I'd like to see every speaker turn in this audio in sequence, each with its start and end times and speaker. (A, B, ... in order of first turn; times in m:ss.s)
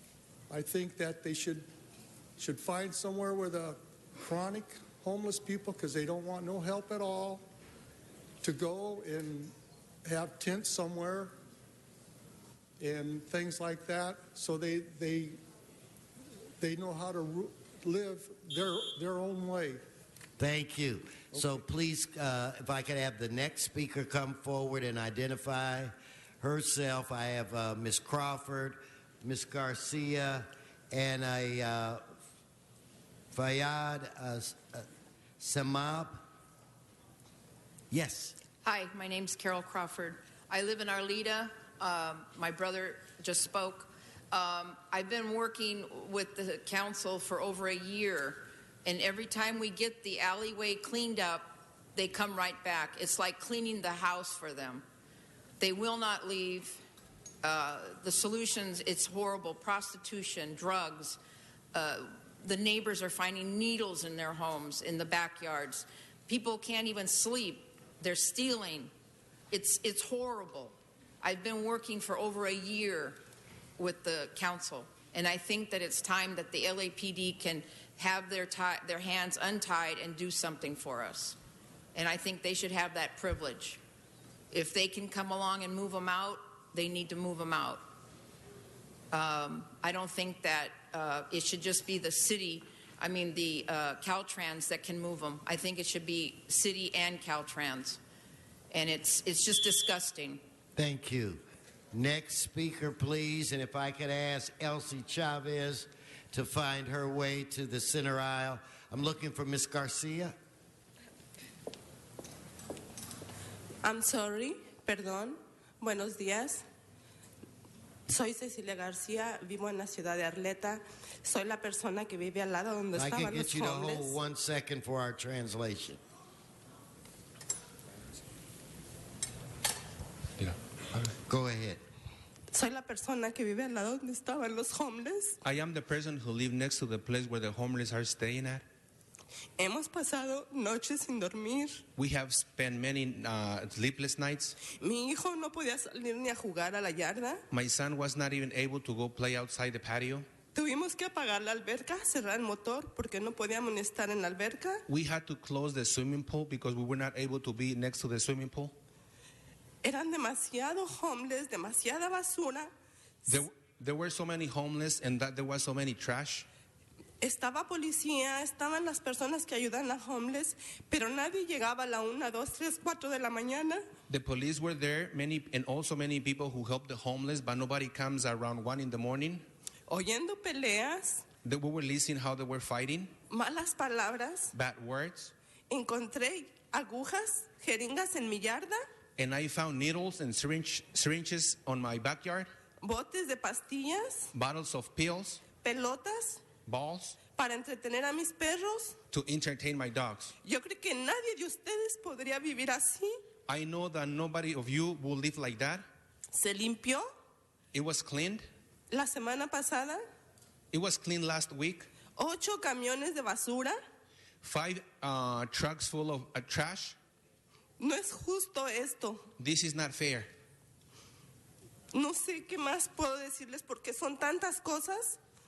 0:00.5-0:01.7 A
0:02.4-0:07.4 A
0:08.4-0:09.5 A
0:10.0-0:11.3 A
0:12.8-0:15.4 A
0:16.6-0:19.8 A
0:20.4-0:32.0 B
0:33.3-0:34.8 B
0:35.4-0:36.2 B
0:37.9-0:38.4 B
0:38.6-0:54.8 C
0:55.6-0:56.8 C
0:57.4-1:01.2 C
1:01.7-1:08.9 C
1:09.5-1:13.2 C
1:13.8-1:21.4 C
1:21.9-1:23.8 C
1:24.5-1:27.8 C
1:29.1-1:38.0 C
1:38.7-1:40.4 C
1:40.8-1:41.4 B
1:41.9-1:50.3 B
1:53.8-1:56.6 D
1:58.1-2:04.2 D
2:02.9-2:06.0 B
2:11.0-2:11.8 B
2:12.5-2:15.4 D
2:15.4-2:18.6 E
2:19.6-2:21.8 D
2:22.0-2:24.6 E
2:24.7-2:27.4 D
2:27.5-2:30.3 E
2:30.5-2:34.8 D
2:34.9-2:38.7 E
2:39.8-2:42.7 D
2:43.3-2:46.5 E
2:47.2-2:53.8 D
2:54.1-2:59.4 E
2:59.9-3:01.2 D
3:01.4-3:03.1 E
3:03.3-3:04.5 D
3:04.5-3:05.3 E
3:05.7-3:08.8 D
3:09.2-3:12.5 E
3:12.8-3:14.3 D
3:14.3-3:15.5 E
3:15.5-3:16.4 D
3:16.7-3:17.2 E
3:17.4-3:19.0 D
3:19.1-3:20.3 E
3:20.4-3:23.1 D
3:23.5-3:25.8 E
3:26.3-3:27.1 D
3:27.7-3:28.4 E
3:28.9-3:30.0 D
3:30.7-3:31.9 E
3:32.2-3:33.8 D
3:34.4-3:37.0 E
3:37.8-3:39.3 D
3:39.4-3:40.3 E
3:41.9-3:45.2 D